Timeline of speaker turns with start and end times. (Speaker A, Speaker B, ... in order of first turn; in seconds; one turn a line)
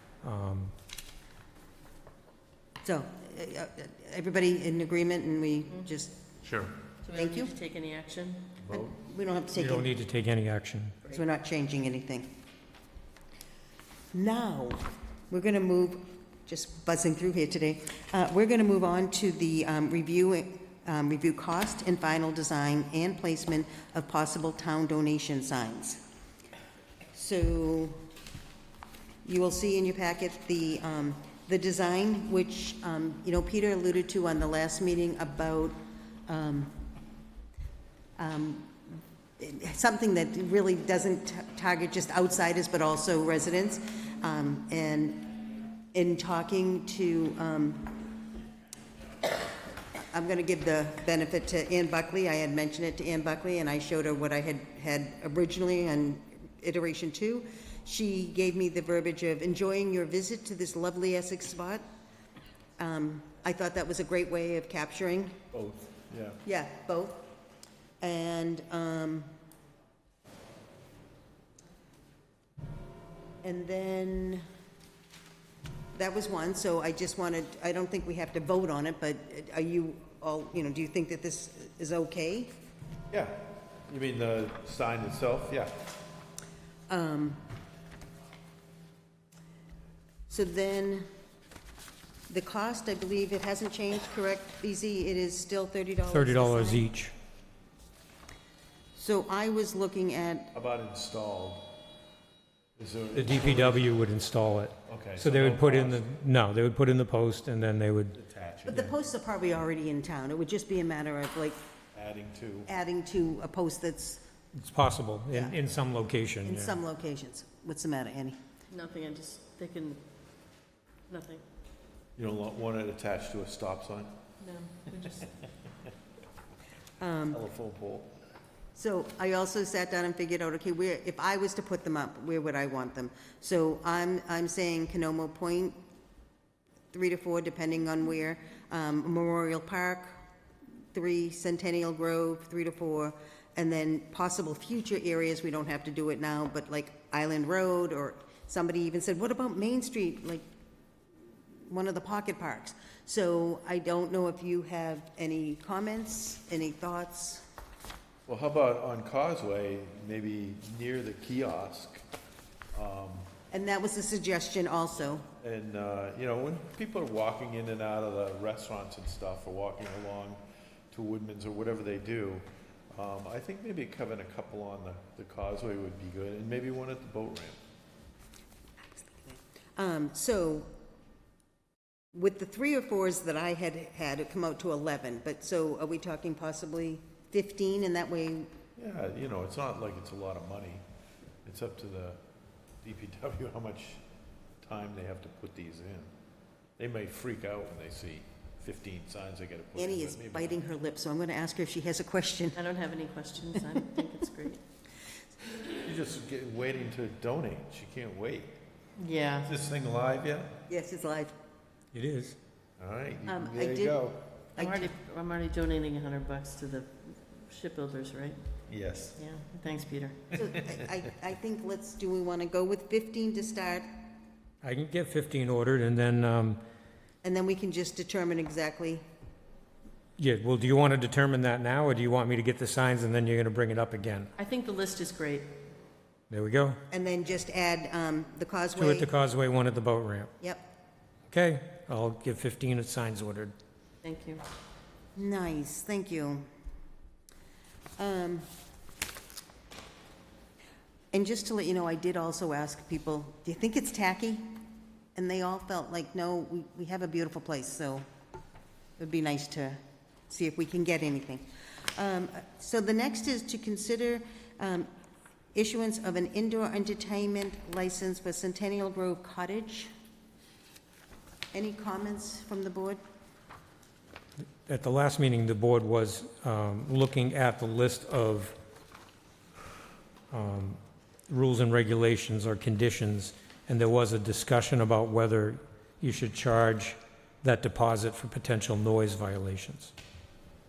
Speaker A: 0.2-0.7
Speaker B: 2.8-6.2
Speaker C: 6.4-6.8
Speaker D: 7.0-8.5
Speaker B: 7.1-7.5
Speaker C: 8.6-8.9
Speaker B: 8.7-9.9
Speaker A: 9.5-11.0
Speaker B: 11.1-12.3
Speaker B: 14.1-26.0
Speaker B: 27.1-28.0
Speaker B: 29.2-35.8
Speaker B: 36.3-36.8
Speaker B: 38.2-45.3
Speaker B: 45.9-48.1
Speaker B: 50.1-61.8
Speaker B: 62.8-65.4
Speaker C: 65.5-66.4
Speaker B: 66.4-67.2
Speaker B: 68.0-69.3
Speaker B: 73.4-74.4
Speaker B: 75.9-82.5
Speaker C: 83.1-85.8
Speaker B: 86.9-87.4
Speaker B: 90.3-91.1
Speaker B: 92.3-96.8
Speaker A: 96.0-97.1
Speaker B: 98.9-100.5
Speaker C: 100.5-101.7
Speaker C: 102.8-103.9
Speaker A: 103.1-108.2
Speaker C: 104.8-106.1
Speaker C: 108.1-109.0
Speaker B: 108.7-111.6
Speaker C: 111.9-112.7
Speaker B: 112.7-114.2
Speaker A: 114.5-116.8
Speaker B: 116.4-118.4
Speaker D: 118.7-120.0
Speaker D: 121.1-121.4
Speaker C: 122.2-124.1
Speaker D: 124.4-125.3
Speaker B: 127.0-127.4
Speaker C: 127.3-128.1
Speaker B: 128.7-135.8
Speaker B: 136.9-140.1
Speaker B: 140.9-150.4
Speaker B: 151.7-157.4
Speaker C: 158.3-162.1
Speaker C: 162.7-163.3
Speaker B: 163.5-165.3
Speaker C: 165.4-177.6
Speaker B: 179.0-180.7
Speaker B: 182.1-188.5
Speaker C: 188.8-190.8
Speaker C: 191.4-192.2
Speaker C: 192.8-194.0
Speaker C: 194.6-196.1
Speaker C: 196.8-200.6
Speaker B: 199.8-202.6
Speaker D: 202.5-204.6
Speaker C: 205.8-208.5
Speaker D: 209.0-209.5
Speaker C: 209.4-210.6
Speaker B: 210.7-211.3
Speaker A: 211.9-212.4
Speaker C: 212.8-214.3
Speaker B: 213.2-214.0
Speaker B: 214.6-214.9
Speaker D: 214.6-218.4
Speaker C: 218.7-219.2
Speaker D: 219.2-220.2
Speaker C: 220.3-220.7
Speaker B: 220.3-223.9
Speaker A: 224.6-226.6
Speaker B: 227.2-229.0
Speaker A: 230.2-234.3
Speaker D: 234.3-235.6
Speaker A: 236.3-236.8
Speaker B: 236.9-239.1
Speaker A: 238.8-240.3
Speaker A: 241.3-243.5
Speaker D: 244.0-244.4
Speaker B: 245.2-246.4
Speaker B: 248.0-248.4
Speaker B: 251.1-254.6
Speaker B: 255.2-258.0
Speaker B: 259.0-264.9
Speaker B: 265.5-269.9
Speaker B: 271.5-273.0
Speaker A: 274.6-278.6
Speaker A: 280.3-289.9